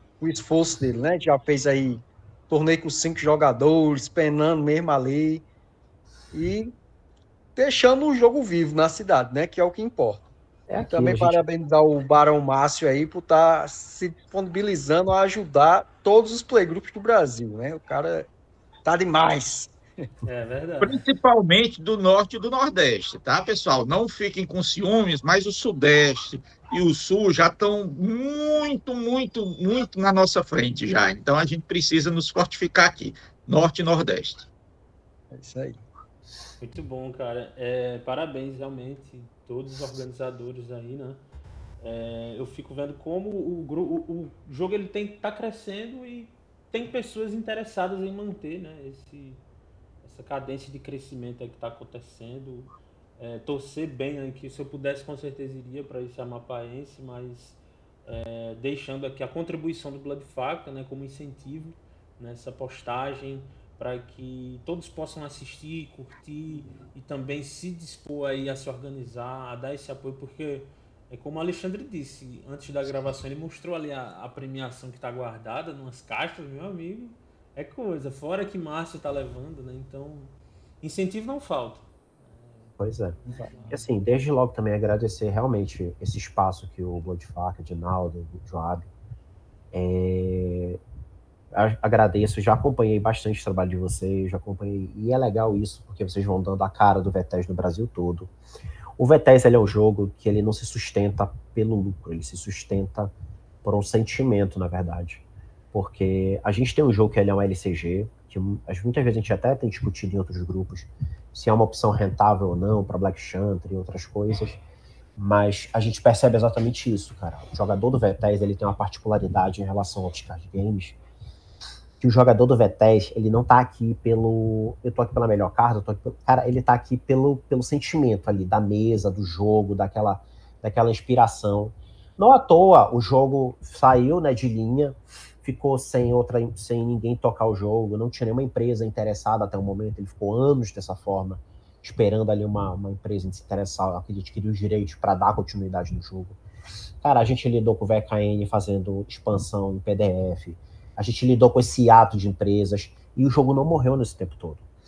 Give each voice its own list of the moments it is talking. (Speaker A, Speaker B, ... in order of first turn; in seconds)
Speaker A: 0.2-5.5, 6.3-6.8, 7.6-10.3, 10.9-18.3, 18.9-20.1, 35.3-35.8
Speaker B: 10.7-11.4, 82.8-83.2, 83.7-88.9, 89.7-90.8, 91.5-98.3, 99.0-103.1, 103.6-114.6, 115.2-121.0, 122.0-146.4, 147.0-154.7
Speaker C: 20.2-21.0, 36.6-41.2, 41.8-49.4, 50.0-83.9
Speaker D: 20.8-34.5